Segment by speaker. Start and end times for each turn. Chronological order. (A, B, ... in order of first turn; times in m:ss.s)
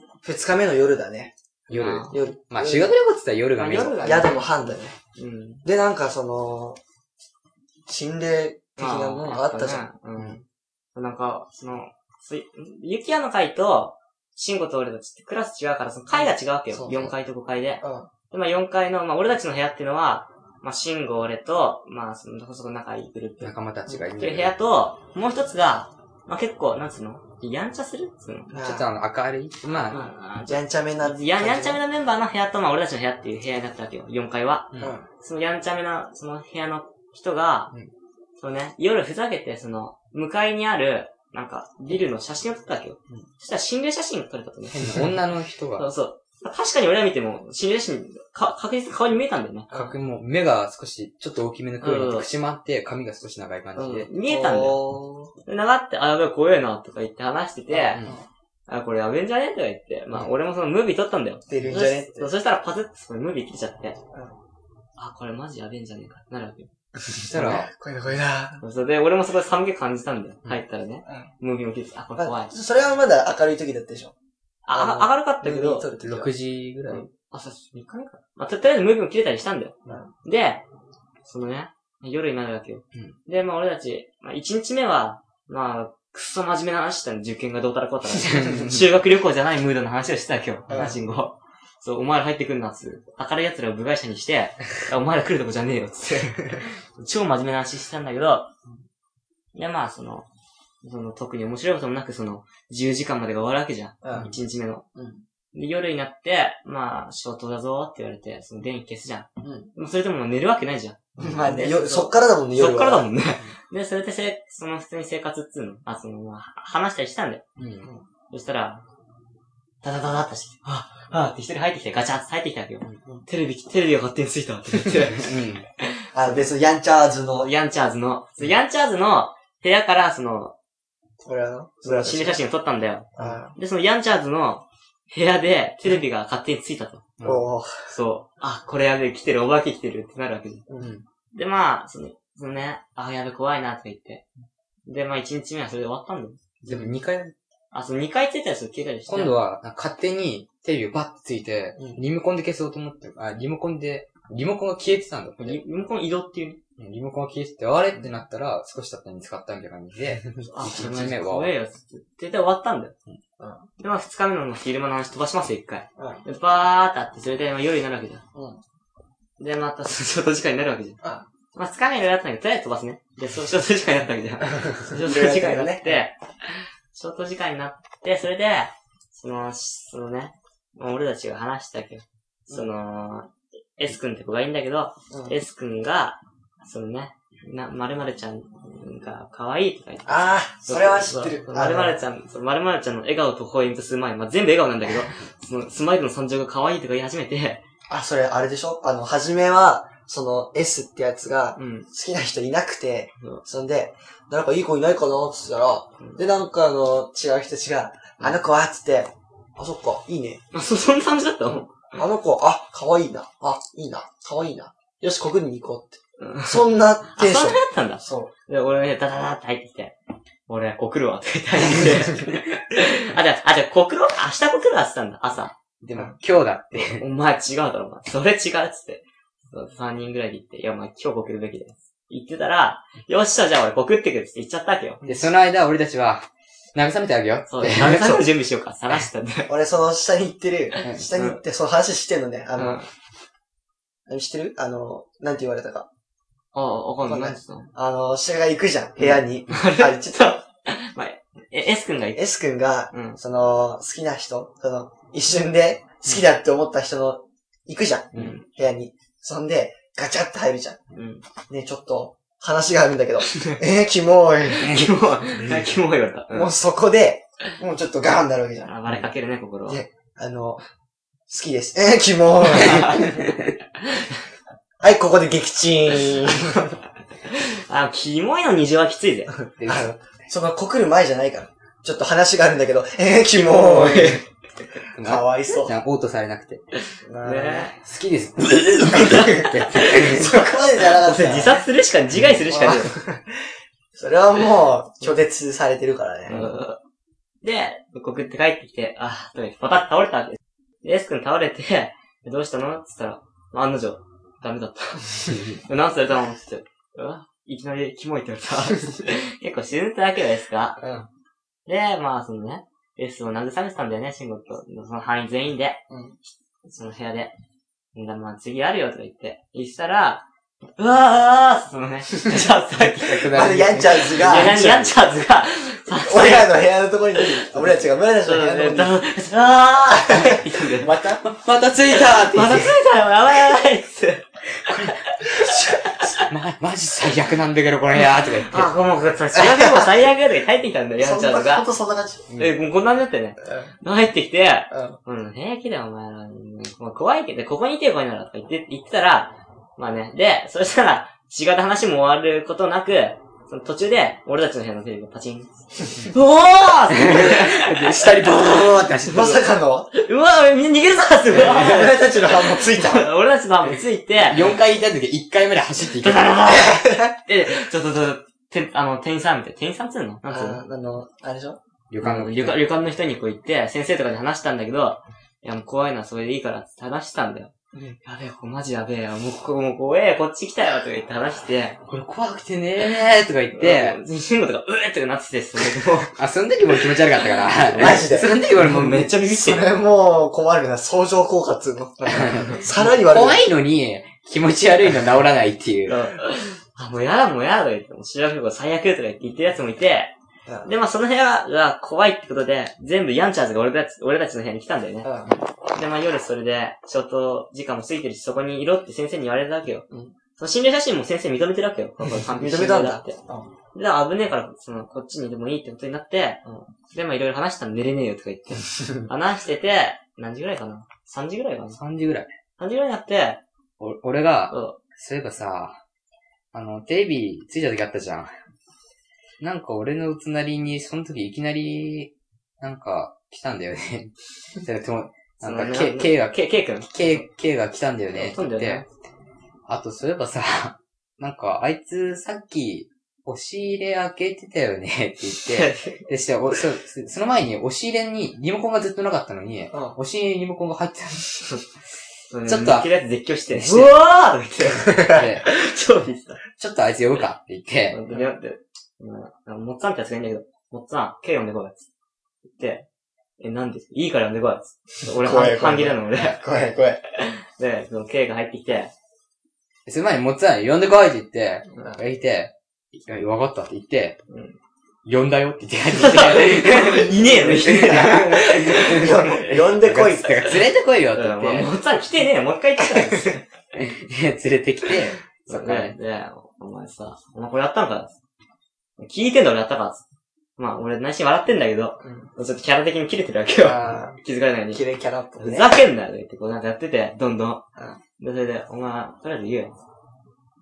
0:00.2-0:01.3 A
0:01.7-0:04.0 B
0:01.7-0:02.2 C
0:02.1-0:02.9 A
0:03.6-0:04.4 C
0:03.9-0:04.9 A
0:05.2-0:05.6 C
0:05.6-0:06.8 A
0:07.9-0:09.9 A
0:08.8-0:10.4 C
0:10.9-0:23.5 C
0:16.1-0:17.1 A
0:17.8-0:18.1 A
0:23.4-0:24.5 B
0:24.2-0:28.6 C
0:28.5-0:28.9 A
0:28.6-0:30.0 B
0:29.8-0:37.7 C
0:30.4-0:31.8 A
0:34.8-0:35.0 A
0:38.4-0:45.1 C
0:44.7-0:45.8 B
0:45.8-0:49.7 C
0:49.7-0:50.0 A
0:49.7-0:54.1 B
0:51.8-0:52.3 C
0:53.8-0:54.8 C
0:54.2-0:55.3 A
0:55.4-0:58.0 C
0:57.7-0:58.2 B
0:58.7-1:04.0 C
1:01.5-1:02.3 A
1:05.0-1:06.7 C
1:07.0-1:08.6 A
1:07.3-1:07.7 B
1:08.6-1:12.5 C
1:12.2-1:14.1 A
1:14.6-1:15.9 C
1:14.7-1:16.3 A
1:16.0-1:17.0 B
1:16.9-1:20.6 C
1:21.2-1:38.5 C
1:28.3-1:28.8 B
1:30.7-1:31.0 B
1:30.7-1:31.0 A
1:39.5-1:40.3 C
1:40.8-1:44.8 C
1:44.0-1:44.4 A
1:45.0-1:45.2 A
1:45.5-1:57.4 C
1:49.4-1:49.7 A
1:51.2-1:53.1 A
1:57.6-1:57.9 B
1:58.3-1:58.8 C
1:59.8-2:06.4 C
2:05.1-2:05.6 B
2:06.1-2:07.5 A
2:07.4-2:10.5 C
2:11.2-2:12.4 A
2:11.8-2:17.1 C
2:13.2-2:13.6 A
2:17.2-2:17.5 B
2:17.2-2:17.9 A
2:17.9-2:20.6 C
2:20.7-2:21.0 A
2:21.3-2:24.2 C
2:24.8-2:26.4 C
2:26.6-2:27.3 B
2:27.7-2:29.4 C
2:29.1-2:35.6 B
2:31.8-2:32.0 A
2:35.4-2:36.6 C
2:36.8-2:41.5 B
2:40.4-2:42.9 C
2:43.4-2:43.6 A
2:43.8-2:48.2 C
2:46.0-2:46.2 A
2:48.3-2:48.6 A
2:49.4-2:51.0 C
2:51.5-3:17.6 C
2:54.7-2:56.0 A
3:05.1-3:05.4 A
3:10.0-3:12.0 A
3:17.9-3:30.4 A
3:21.6-3:21.9 C
3:30.5-3:31.7 C
3:32.0-3:38.3 A
3:36.2-3:39.9 C
3:40.5-3:45.5 C
3:45.8-3:47.0 B
3:46.7-3:55.0 C
3:55.0-3:58.2 B
3:57.5-3:59.5 C
3:59.5-4:02.8 A
4:00.7-4:01.4 C
4:00.8-4:01.1 B
4:02.6-4:02.9 C
4:04.1-4:05.9 A
4:06.5-4:07.7 C
4:07.0-4:10.3 A
4:09.0-4:12.2 C
4:12.2-4:20.8 A
4:12.9-4:13.2 C
4:18.1-4:18.4 C
4:20.9-4:21.2 C
4:21.5-4:24.8 A
4:23.3-4:23.6 C
4:24.5-4:26.5 C
4:24.6-4:25.6 B
4:26.3-4:28.7 A
4:28.6-4:29.8 C
4:29.7-4:30.6 A
4:31.3-4:33.3 A
4:32.5-4:33.1 C
4:33.8-4:34.1 C
4:34.8-4:36.7 A
4:37.2-4:39.3 C
4:39.6-4:40.0 B
4:39.6-4:44.2 A
4:43.4-4:44.2 C
4:44.9-4:45.7 A
4:44.9-4:46.6 B
4:47.0-4:47.7 A
4:47.2-4:47.8 C
4:47.8-4:50.3 B
4:48.8-4:51.6 A
4:48.9-4:53.0 C
4:52.5-4:56.5 A
4:56.3-4:56.8 C
4:57.4-5:10.8 C
5:10.8-5:11.1 A
5:11.6-5:15.8 C
5:15.9-5:16.1 A
5:16.6-5:17.3 C
5:17.9-5:20.2 C
5:20.8-5:26.5 C
5:22.2-5:22.4 A
5:22.8-5:24.9 B
5:23.3-5:24.9 A
5:25.9-5:29.0 A
5:27.2-5:30.9 C
5:29.9-5:31.2 A
5:31.2-5:32.8 B
5:31.9-5:36.3 C
5:34.7-5:38.8 B
5:38.2-5:41.7 C
5:39.3-5:39.8 A
5:41.0-5:42.4 A
5:42.3-5:58.5 C
5:43.4-5:43.7 A
5:44.7-5:45.0 A
5:56.9-5:59.4 B
5:59.1-5:59.9 A
5:59.9-6:04.5 C
6:01.3-6:03.1 A
6:04.2-6:06.3 B
6:05.8-6:10.6 C
6:06.4-6:07.2 A
6:10.3-6:11.6 A
6:11.9-6:12.6 B
6:12.0-6:17.5 C
6:18.0-6:21.8 C
6:21.8-6:24.0 B
6:23.5-6:29.7 C
6:26.2-6:29.2 B
6:27.8-6:33.5 A
6:32.1-6:36.0 B
6:35.9-6:36.2 A
6:36.1-6:40.1 C
6:40.4-6:40.7 A
6:40.6-6:45.1 C
6:45.0-6:45.4 A
6:45.7-6:49.8 C
6:50.4-6:53.2 C
6:52.3-6:53.5 A
6:53.7-7:01.8 C
7:01.8-7:02.3 B
7:02.6-7:03.4 C
7:03.8-7:05.8 B
7:04.5-7:04.8 C
7:06.5-7:08.3 B
7:09.4-7:14.1 B
7:14.6-7:18.8 B
7:15.4-7:17.3 C
7:18.1-7:18.9 C
7:19.7-7:31.6 B
7:25.4-7:26.0 C
7:29.7-7:30.0 A
7:32.3-7:36.4 C
7:32.4-7:32.9 B
7:35.1-7:35.5 B
7:36.6-7:38.0 B
7:37.9-7:41.9 C
7:42.5-7:42.8 C
7:43.4-7:48.9 C
7:45.1-7:47.0 A
7:49.8-7:54.2 B
7:54.3-7:54.6 C
7:55.0-8:01.7 B
7:55.9-7:59.2 C
7:57.9-8:00.5 A
8:00.5-8:03.5 C
8:02.8-8:03.3 A
8:03.7-8:06.0 B
8:05.5-8:08.2 C
8:09.0-8:10.0 C
8:10.6-8:14.8 C
8:12.0-8:12.3 A
8:13.6-8:14.2 A
8:13.6-8:14.1 B
8:14.7-8:15.8 A
8:15.4-8:17.6 C
8:18.2-8:19.8 C